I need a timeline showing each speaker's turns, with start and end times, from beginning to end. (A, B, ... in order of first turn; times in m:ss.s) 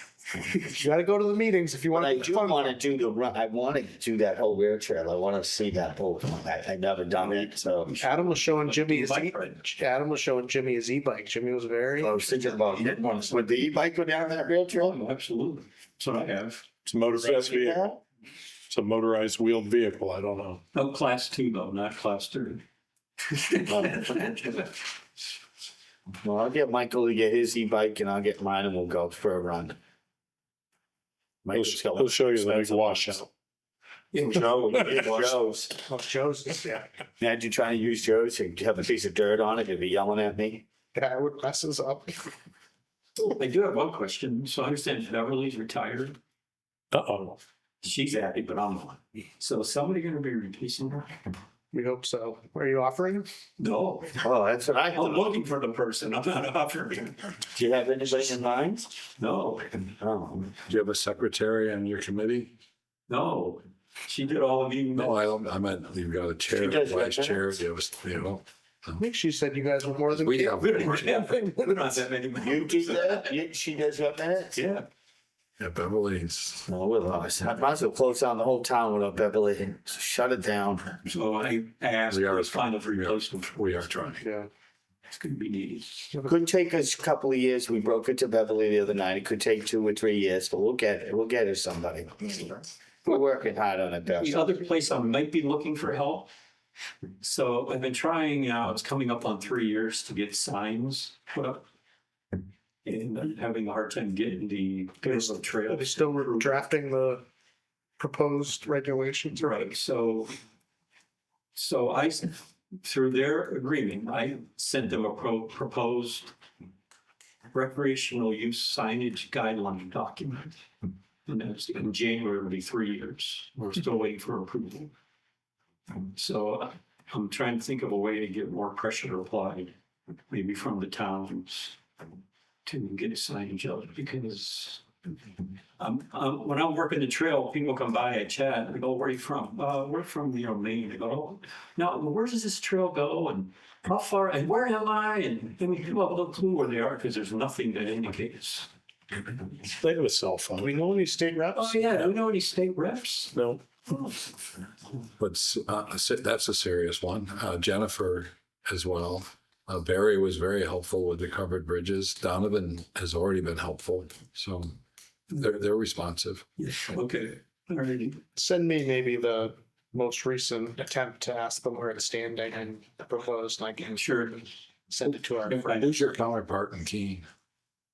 0:00.4-0:02.8 A
0:01.9-0:08.0 B
0:07.8-0:09.6 C
0:08.0-0:12.7 A
0:12.0-0:15.0 B
0:14.8-0:16.7 C
0:16.8-0:17.8 D
0:17.1-0:18.0 B
0:18.7-0:20.6 D
0:20.7-0:22.6 C
0:23.2-0:25.0 C
0:26.2-0:29.8 B
0:31.4-0:33.0 B
0:31.5-0:33.2 D
0:34.1-0:35.4 C
0:34.2-0:35.7 B
0:35.8-0:36.8 A
0:37.2-0:40.6 B
0:40.9-0:42.3 A
0:43.2-0:46.2 C
0:46.9-0:47.4 D
0:47.8-0:51.2 C
0:51.7-0:53.3 A
0:53.6-0:54.3 C
0:54.2-0:55.4 B
0:54.9-0:57.4 C
0:57.5-0:58.9 B
0:59.2-0:59.8 C
1:00.0-1:00.6 B
1:00.6-1:02.5 E
1:03.1-1:05.2 C
1:05.0-1:09.0 E
1:06.5-1:07.5 B
1:09.0-1:11.4 A
1:10.1-1:10.7 E
1:10.4-1:13.3 C
1:12.4-1:14.6 B
1:14.6-1:14.9 C
1:15.6-1:16.7 E
1:16.7-1:21.0 B
1:21.0-1:23.8 C
1:22.1-1:24.2 E
1:24.2-1:24.5 A
1:25.1-1:26.1 C
1:26.3-1:34.4 B
1:34.2-1:36.3 C
1:37.2-1:41.6 C
1:42.8-1:46.7 C
1:45.1-1:47.2 A
1:48.0-1:49.7 A
1:49.4-1:50.4 C
1:51.5-1:56.3 C
1:57.5-2:00.6 C
2:01.3-2:04.9 C
2:06.1-2:09.7 C
2:10.3-2:11.8 C
2:12.6-2:14.8 C
2:15.8-2:28.7 C
2:29.7-2:30.7 D
2:30.6-2:31.8 A
2:31.5-2:33.4 C
2:33.3-2:33.6 D
2:33.9-2:34.3 C
2:35.2-2:44.8 E
2:45.3-2:46.4 E
2:46.6-2:48.2 C
2:48.4-2:55.6 A
2:54.0-2:54.5 C
2:55.5-2:57.2 E
2:55.6-2:55.9 C